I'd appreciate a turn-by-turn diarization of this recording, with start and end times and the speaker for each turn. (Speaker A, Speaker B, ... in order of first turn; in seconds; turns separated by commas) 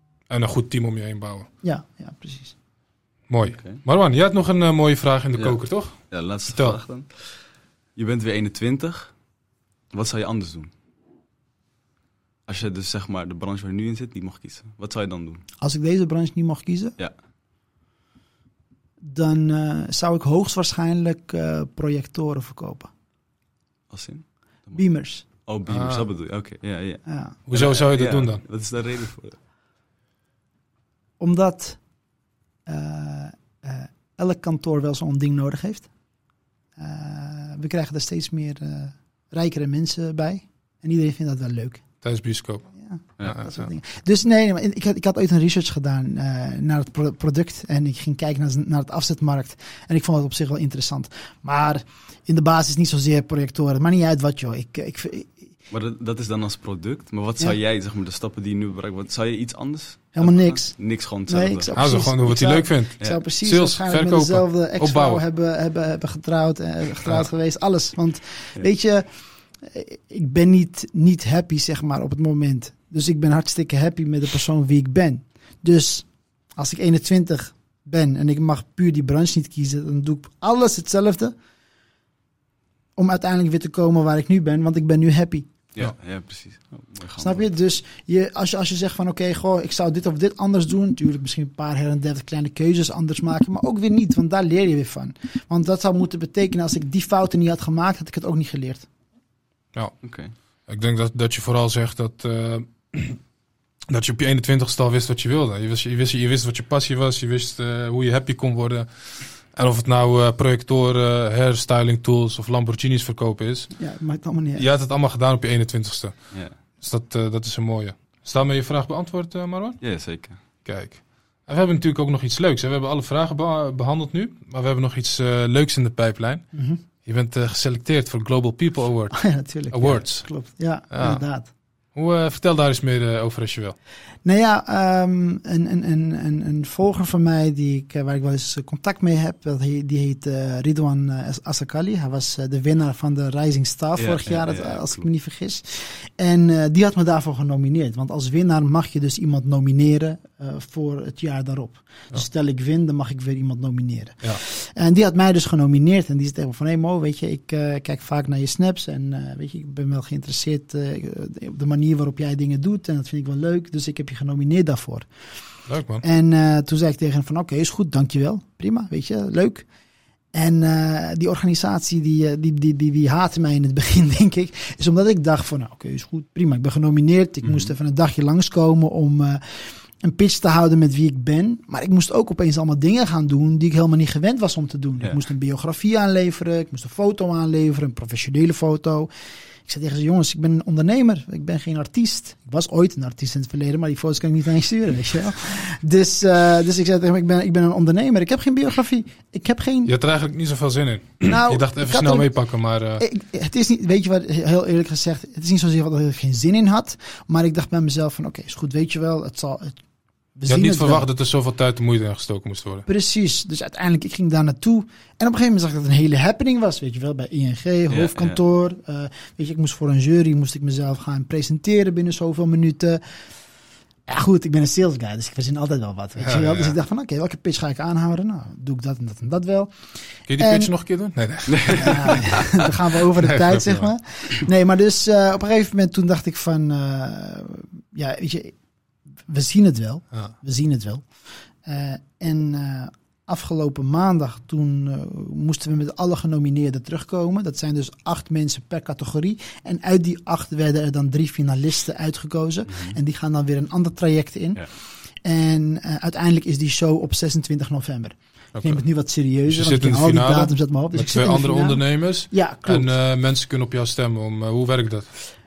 Speaker A: 0.3-1.5, Speaker B: 1.6-2.5, Speaker A: 3.3-6.8, Speaker C: 3.4-3.8, Speaker C: 5.3-9.2, Speaker C: 9.9-10.7, Speaker C: 12.4-15.4, Speaker B: 15.6-16.9, Speaker B: 19.0-22.9, Speaker C: 23.9-29.4, Speaker B: 24.7-25.2, Speaker A: 25.7-26.0, Speaker B: 27.1-27.4, Speaker A: 27.5-28.4, Speaker B: 31.2-31.8, Speaker B: 32.6-35.9, Speaker B: 36.8-41.8, Speaker A: 42.0-43.7, Speaker B: 42.7-55.5, Speaker C: 55.7-61.7, Speaker B: 60.1-81.3, Speaker A: 61.7-65.2, Speaker B: 83.0-85.5, Speaker C: 85.7-87.5, Speaker B: 87.2-98.9, Speaker C: 100.0-100.3, Speaker A: 100.7-103.2, Speaker A: 103.9-113.8, Speaker B: 113.7-114.7, Speaker A: 114.5-119.8, Speaker C: 119.8-120.4, Speaker A: 120.6-131.2, Speaker B: 126.5-126.8, Speaker B: 129.1-131.5, Speaker A: 131.9-133.8, Speaker B: 134.2-165.1, Speaker C: 143.9-145.1, Speaker A: 165.7-166.0, Speaker B: 166.0-169.7, Speaker B: 170.3-189.1, Speaker C: 177.4-177.7, Speaker B: 189.7-199.9, Speaker A: 199.8-203.0, Speaker B: 201.2-202.3, Speaker B: 203.0-209.8, Speaker B: 210.3-211.1, Speaker A: 210.5-212.9, Speaker B: 212.9-223.2, Speaker C: 217.9-218.4, Speaker B: 224.1-230.7, Speaker A: 226.2-226.7, Speaker A: 230.3-233.9, Speaker C: 231.5-232.0, Speaker B: 231.7-238.6, Speaker B: 239.3-262.9, Speaker C: 252.7-253.0, Speaker A: 258.5-265.1